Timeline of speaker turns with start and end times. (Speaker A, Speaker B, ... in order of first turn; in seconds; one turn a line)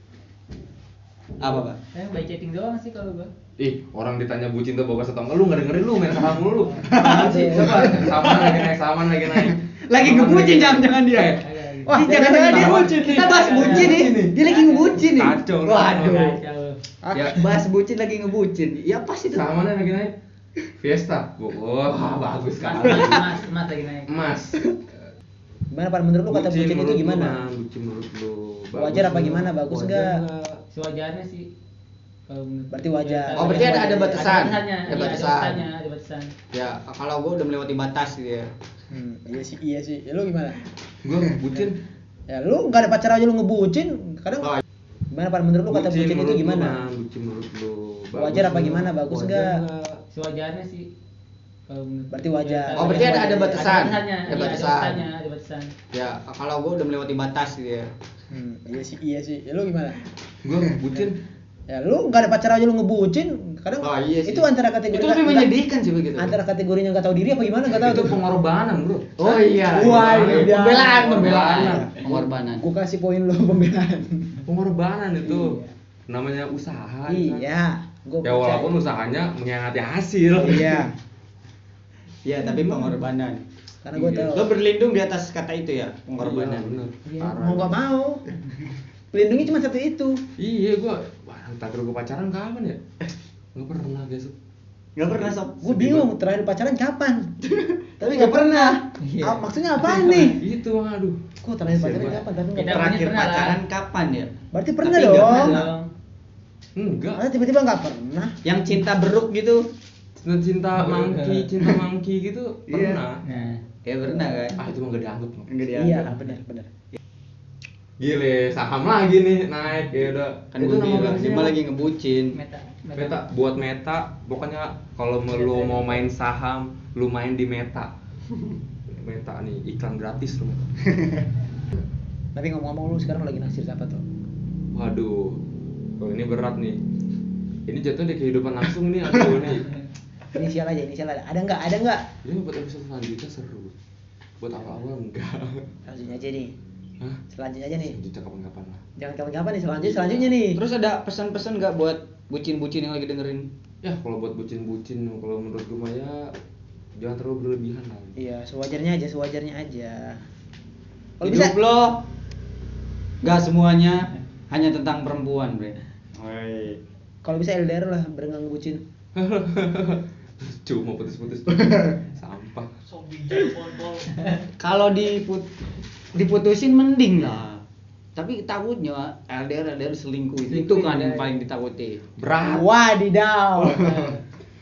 Speaker A: 1.4-1.8
Speaker B: 1.4-3.3
Speaker C: 3.6-11.5
Speaker B: 6.6-7.0
Speaker A: 6.9-8.7
Speaker D: 6.9-7.9
Speaker A: 9.2-11.4
Speaker B: 11.4-12.1
Speaker D: 11.9-12.8
Speaker A: 11.9-16.4
Speaker C: 12.3-14.4
Speaker B: 13.1-15.1
Speaker C: 15.1-16.4
Speaker B: 15.9-16.8
Speaker D: 17.0-17.6
Speaker A: 17.3-19.5
Speaker C: 19.3-20.2
Speaker C: 20.8-23.3
Speaker B: 22.6-24.1
Speaker C: 24.1-24.6
Speaker D: 25.7-27.4
Speaker C: 26.3-30.6
Speaker D: 28.8-30.2
Speaker B: 30.7-31.5
Speaker B: 32.3-36.3
Speaker D: 32.7-34.3
Speaker A: 33.4-35.6
Speaker A: 36.5-38.5
Speaker D: 38.9-40.6
Speaker C: 41.0-41.8
Speaker D: 42.3-44.6
Speaker D: 45.1-46.8
Speaker C: 45.7-50.0
Speaker D: 48.1-49.6
Speaker B: 50.1-50.9
Speaker B: 51.7-55.7
Speaker D: 52.1-53.7
Speaker A: 52.8-55.0
Speaker A: 55.9-57.9
Speaker D: 58.3-60.0
Speaker C: 60.4-61.2
Speaker D: 61.7-65.5
Speaker A: 63.8-66.3
Speaker D: 66.2-68.1
Speaker C: 67.7-71.9
Speaker A: 69.2-72.6
Speaker D: 69.7-74.4
Speaker C: 74.5-77.4
Speaker D: 75.2-75.7
Speaker D: 77.1-78.7
Speaker C: 78.2-80.6
Speaker D: 80.4-80.9
Speaker A: 80.4-80.9
Speaker A: 82.2-83.4
Speaker D: 82.4-83.0
Speaker D: 83.8-84.5
Speaker C: 83.9-84.4
Speaker A: 84.3-86.8
Speaker C: 86.2-87.8
Speaker D: 87.1-88.2
Speaker D: 89.1-90.2
Speaker C: 90.4-92.8
Speaker C: 93.5-94.3
Speaker A: 95.0-95.9
Speaker C: 95.1-96.1
Speaker D: 95.6-97.3
Speaker A: 97.5-98.8
Speaker D: 98.0-100.4
Speaker B: 99.0-100.3
Speaker C: 100.4-101.2
Speaker D: 101.4-102.9
Speaker C: 101.7-102.2
Speaker B: 102.5-103.6
Speaker A: 102.7-104.3
Speaker D: 104.5-105.6
Speaker A: 104.8-105.7
Speaker B: 105.0-105.9
Speaker C: 106.8-107.2
Speaker D: 107.2-108.3
Speaker A: 108.4-109.7
Speaker C: 110.2-113.2
Speaker B: 110.8-111.5
Speaker A: 112.7-113.0
Speaker B: 113.2-113.6
Speaker A: 113.9-114.6
Speaker C: 114.6-115.5
Speaker A: 115.5-116.3
Speaker D: 115.7-116.7
Speaker C: 118.0-121.6
Speaker A: 120.5-122.4
Speaker B: 122.3-123.2
Speaker C: 123.0-127.9
Speaker B: 125.3-126.0
Speaker C: 128.9-130.7
Speaker D: 132.3-134.0
Speaker C: 134.7-135.4
Speaker C: 136.0-136.8
Speaker C: 137.7-139.7
Speaker D: 140.3-142.1
Speaker C: 142.2-143.7
Speaker C: 144.4-145.7
Speaker D: 145.9-146.5
Speaker D: 147.3-148.0
Speaker C: 147.8-148.8
Speaker D: 149.0-150.6
Speaker C: 149.9-150.3
Speaker A: 150.5-153.5
Speaker C: 153.8-156.3
Speaker C: 157.0-158.2
Speaker D: 158.2-160.2
Speaker D: 161.2-161.6
Speaker A: 161.2-162.0
Speaker A: 163.2-166.8
Speaker D: 167.2-168.8
Speaker C: 169.2-172.7
Speaker A: 173.3-173.8
Speaker A: 174.6-175.5
Speaker A: 176.1-177.6
Speaker A: 178.2-182.0
Speaker B: 180.5-181.4
Speaker C: 182.2-182.7
Speaker D: 182.4-183.9
Speaker B: 183.7-184.2